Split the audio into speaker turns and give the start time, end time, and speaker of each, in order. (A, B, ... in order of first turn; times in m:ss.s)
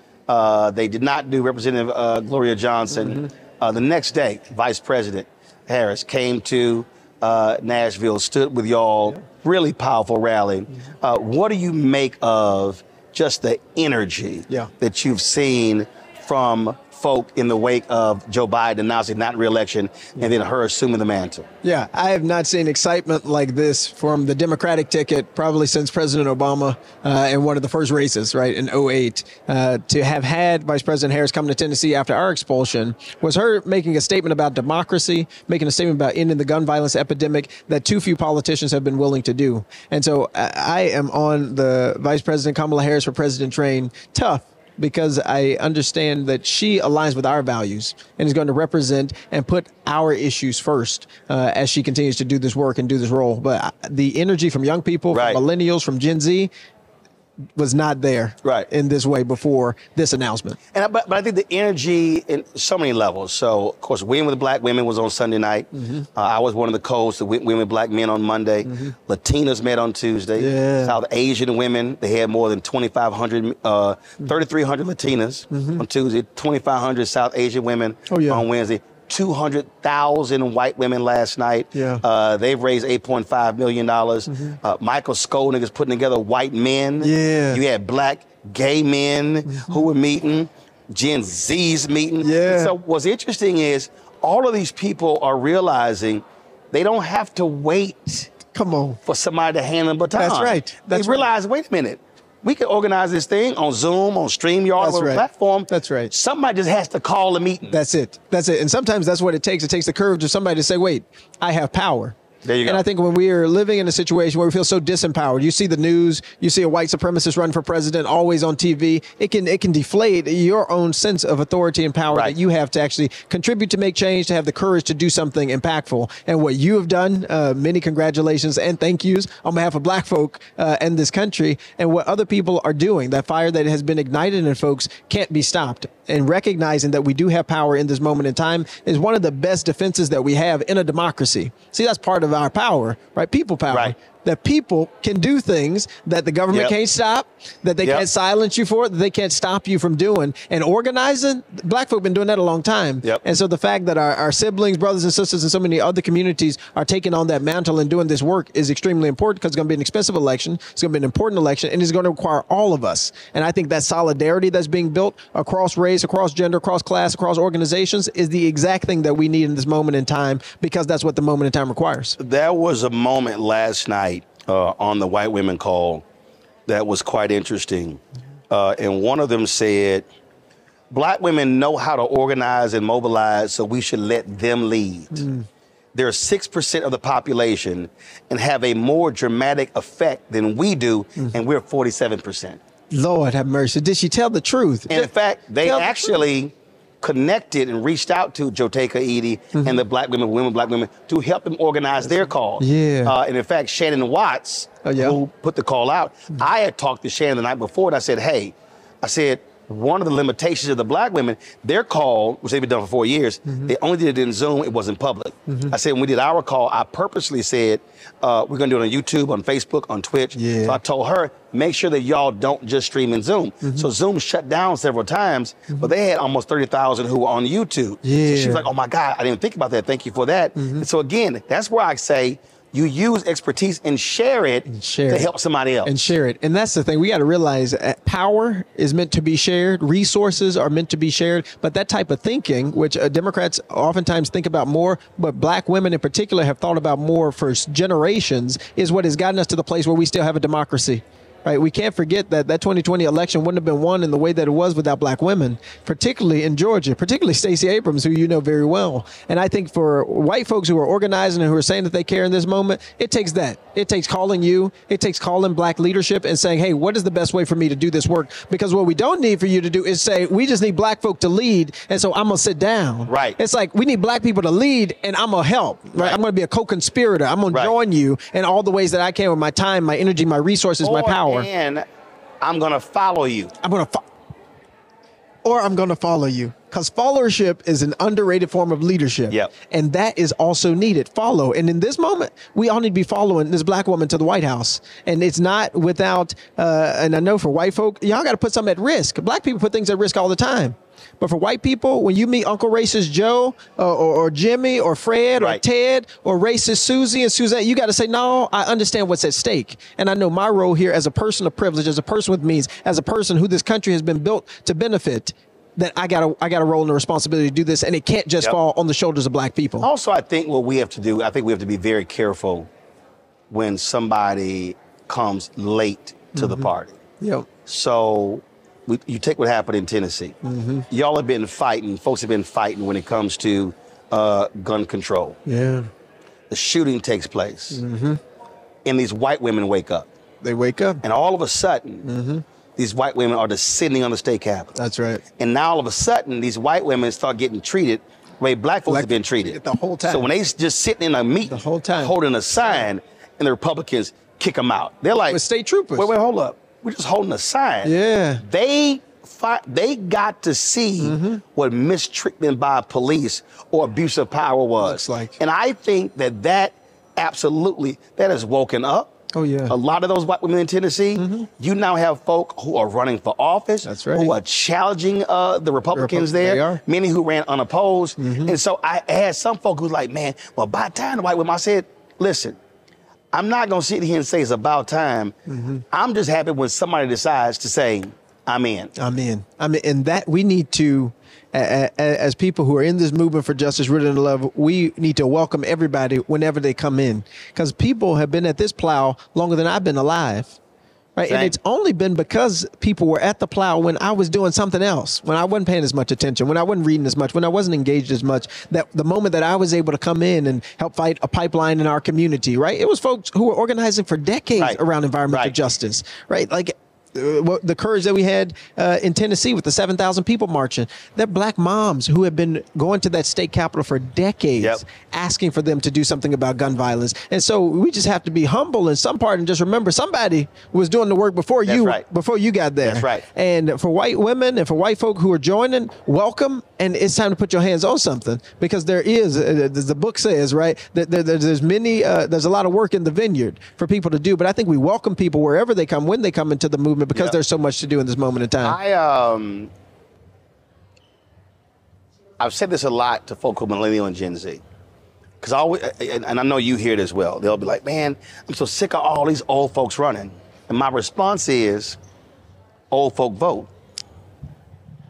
0:00.3-0:21.5 A
0:02.9-0:03.2 B
0:21.6-0:56.5 B
0:55.1-0:55.4 A
0:57.6-1:00.6 B
1:00.7-1:38.3 A
1:05.7-1:06.0 B
1:08.6-1:08.9 B
1:10.4-1:11.0 B
1:15.5-1:15.8 B
1:18.1-1:18.4 B
1:21.7-1:22.0 B
1:24.2-1:24.6 B
1:27.0-1:27.6 B
1:29.4-1:29.9 B
1:32.2-1:32.8 B
1:38.5-1:39.0 B
1:39.0-1:47.8 A
1:40.1-1:41.3 B
1:44.8-1:46.1 B
1:47.7-2:52.2 B
1:52.4-1:52.8 A
2:52.2-2:56.0 A
2:56.7-3:00.1 A
3:00.9-3:05.2 A
3:05.1-3:05.4 B
3:05.9-3:12.6 A
3:12.9-3:15.1 B
3:14.9-3:56.0 A
3:15.6-3:16.2 B
3:19.5-3:19.8 B
3:22.6-3:23.1 B
3:24.8-3:25.2 B
3:35.5-3:35.7 B
3:40.3-3:40.8 B
3:43.6-3:43.9 B
3:48.0-3:48.6 B
3:50.6-3:50.8 B
3:54.7-3:55.3 B
3:55.8-4:41.5 B
4:33.1-4:33.4 A
4:40.8-4:41.8 A
4:42.4-4:43.5 A
4:43.6-4:44.0 B
4:45.4-5:19.9 B
5:19.8-5:22.7 A
5:23.5-5:27.0 A
5:26.4-5:26.7 B
5:27.2-5:27.5 B
5:27.6-5:30.4 A
5:30.4-5:30.9 B
5:30.9-5:35.4 A
5:35.4-5:35.9 B
5:36.5-5:37.8 A
5:37.7-5:38.2 B
5:38.8-5:40.1 A
5:40.4-5:41.0 B
5:41.0-5:42.0 A
5:42.0-5:42.4 B
5:42.8-5:44.7 A
5:44.7-5:45.2 B
5:45.4-5:55.4 A
5:48.9-5:50.3 B
5:51.5-5:52.1 B
5:55.2-5:56.1 B
5:56.0-6:09.1 A
5:57.8-5:58.4 B
6:01.0-6:01.4 B
6:04.8-6:05.4 B
6:09.3-6:09.7 B
6:09.7-6:22.6 A
6:11.2-6:11.5 B
6:13.8-6:14.3 B
6:15.9-6:16.8 B
6:18.2-6:18.6 B
6:23.3-6:25.4 A
6:25.5-6:25.8 B
6:25.9-6:28.9 A
6:29.0-6:40.6 B
6:41.2-7:28.8 B
6:41.3-6:41.5 A
6:54.6-6:55.5 A
7:11.6-7:12.0 A
7:12.8-7:13.2 A
7:28.6-7:29.7 A
7:32.4-7:34.6 A
7:35.4-7:42.0 A
7:42.9-7:43.7 A